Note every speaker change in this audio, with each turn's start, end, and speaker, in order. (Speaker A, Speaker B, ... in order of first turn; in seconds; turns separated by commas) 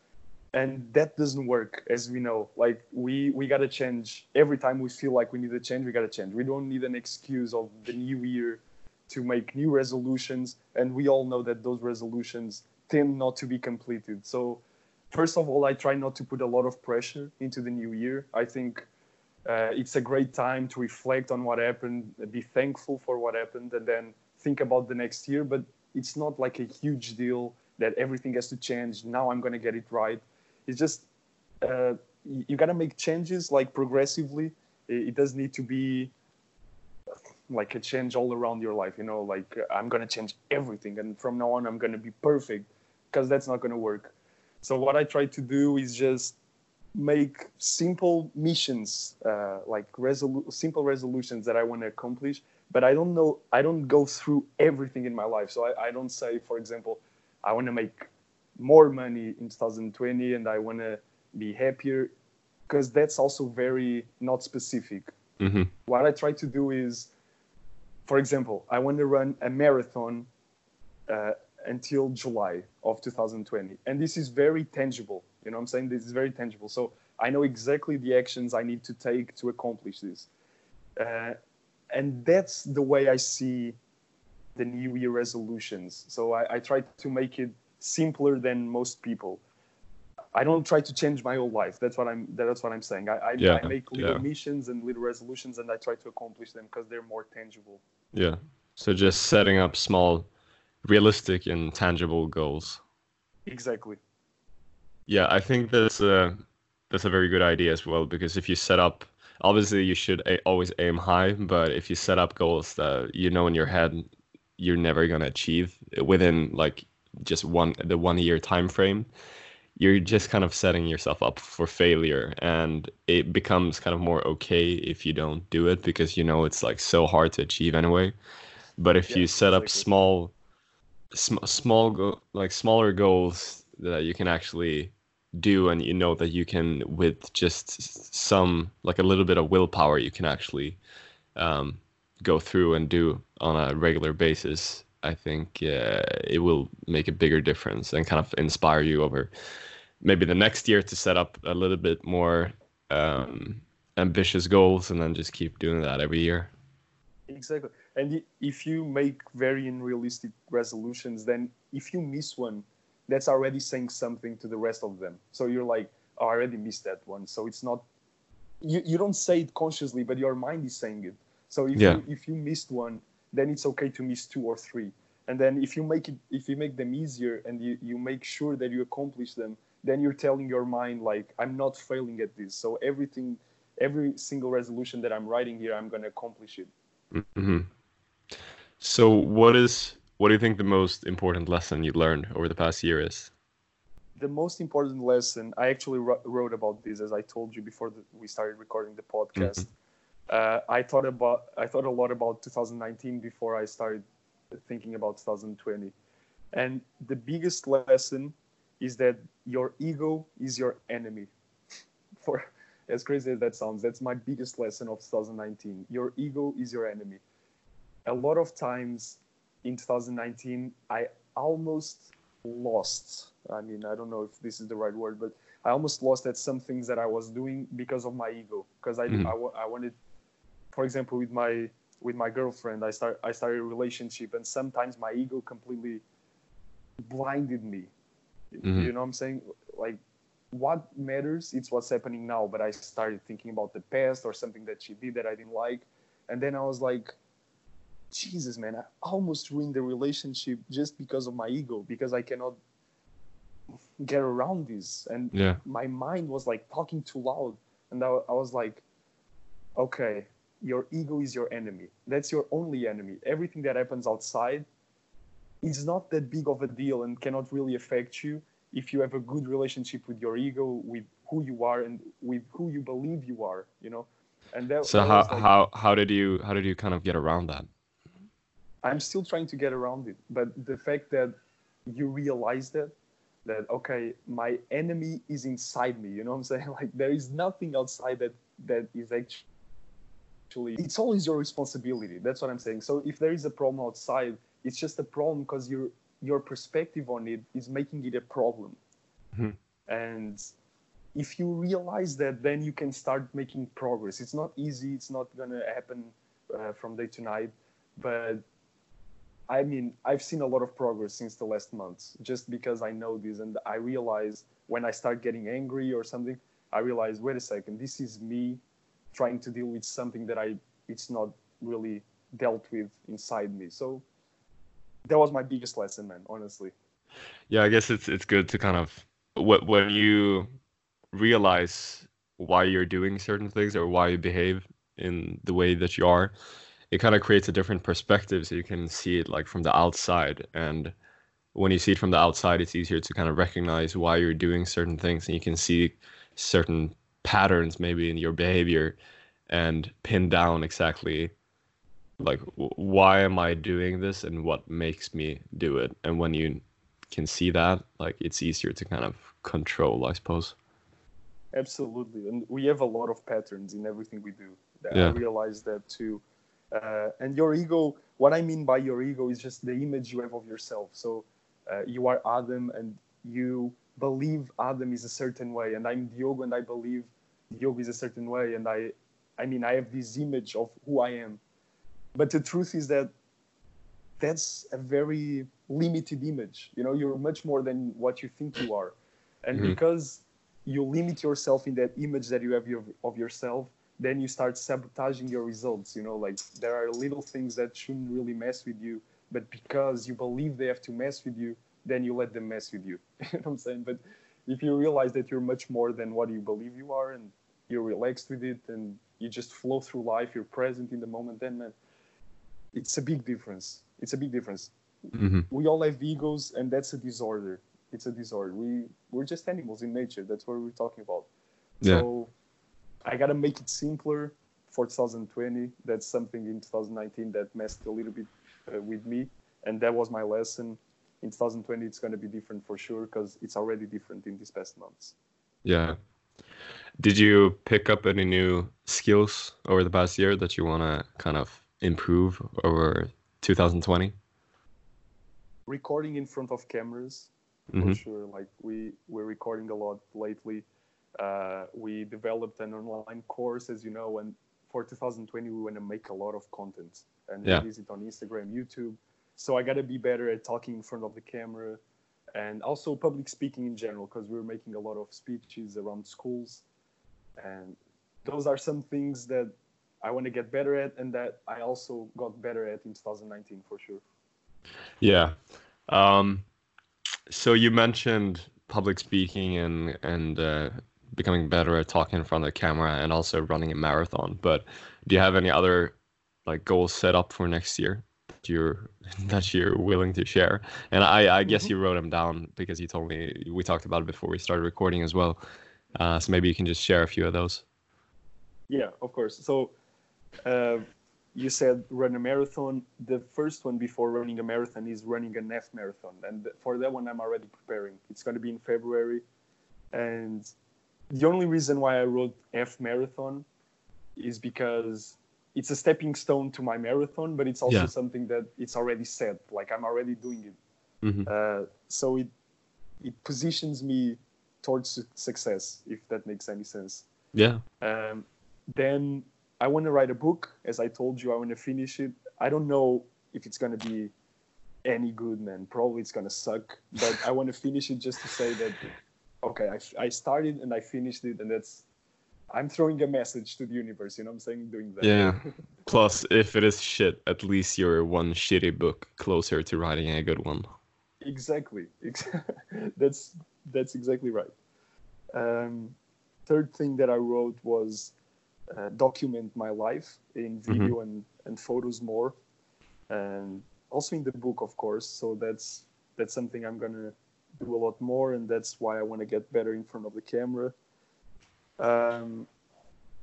Speaker A: 0.5-18.9, Speaker A: 19.4-31.1, Speaker A: 31.6-36.1, Speaker A: 37.5-46.3, Speaker A: 46.9-62.1, Speaker A: 62.7-65.1, Speaker B: 65.4-65.7, Speaker A: 65.8-67.1, Speaker A: 68.1-70.3, Speaker A: 71.1-80.3, Speaker A: 81.0-81.4, Speaker A: 81.9-83.8, Speaker A: 84.5-89.4, Speaker A: 90.3-97.8, Speaker B: 93.4-94.2, Speaker B: 98.1-100.3, Speaker B: 100.8-102.8, Speaker A: 103.5-104.0, Speaker B: 105.1-106.4, Speaker B: 106.9-119.1, Speaker B: 119.8-128.1, Speaker B: 128.8-130.3, Speaker A: 129.1-129.8, Speaker B: 131.1-140.8, Speaker B: 141.3-149.3, Speaker B: 150.0-156.5, Speaker A: 157.3-167.8, Speaker A: 168.6-186.7, Speaker B: 171.8-172.0, Speaker B: 187.1-187.7, Speaker B: 188.8-193.3, Speaker A: 194.2-199.7, Speaker B: 199.3-199.6, Speaker A: 200.3-205.9, Speaker A: 206.5-211.3, Speaker A: 212.2-217.2, Speaker A: 218.1-229.9, Speaker A: 230.7-236.0, Speaker A: 237.1-237.9, Speaker A: 238.5-240.0, Speaker B: 238.6-238.9, Speaker A: 240.5-247.1, Speaker A: 248.1-252.6, Speaker A: 254.0-258.8, Speaker B: 255.3-255.6, Speaker A: 259.8-264.6, Speaker A: 265.6-275.5, Speaker B: 274.8-277.7, Speaker A: 278.8-281.3, Speaker A: 281.9-282.9, Speaker A: 283.4-289.4, Speaker A: 290.5-298.8, Speaker A: 299.9-300.5, Speaker A: 301.1-308.4, Speaker A: 309.5-318.6, Speaker A: 319.1-324.0, Speaker A: 325.1-326.7, Speaker B: 327.5-330.4, Speaker B: 331.1-336.3, Speaker B: 336.9-340.9, Speaker B: 341.5-349.0, Speaker B: 349.5-351.3, Speaker B: 352.2-360.5, Speaker A: 361.5-366.2, Speaker B: 364.9-365.2, Speaker A: 366.7-381.4, Speaker A: 382.1-383.1, Speaker A: 384.2-411.7, Speaker A: 412.7-414.7, Speaker B: 415.1-415.4, Speaker A: 415.5-421.3, Speaker A: 421.8-422.3, Speaker A: 423.0-435.1, Speaker B: 435.6-435.9, Speaker B: 437.0-444.1, Speaker A: 445.7-450.6, Speaker B: 447.7-448.0, Speaker A: 451.2-461.8, Speaker A: 462.3-466.6, Speaker A: 467.4-474.0, Speaker B: 475.0-475.3, Speaker B: 475.9-476.4, Speaker B: 477.3-495.4, Speaker B: 495.9-497.6, Speaker A: 498.7-499.7, Speaker A: 500.4-509.2, Speaker A: 509.9-510.5, Speaker A: 511.1-513.4, Speaker A: 514.2-520.5, Speaker B: 521.0-521.3, Speaker A: 521.2-522.3, Speaker A: 523.0-527.0, Speaker B: 527.3-527.6, Speaker A: 527.8-534.1, Speaker A: 534.8-538.8, Speaker A: 539.4-541.8, Speaker A: 542.5-545.5, Speaker B: 545.0-550.7, Speaker A: 551.2-554.5, Speaker A: 555.3-556.0, Speaker A: 556.5-558.1, Speaker A: 558.7-562.3, Speaker B: 560.7-560.9, Speaker A: 563.1-570.7, Speaker A: 571.8-572.5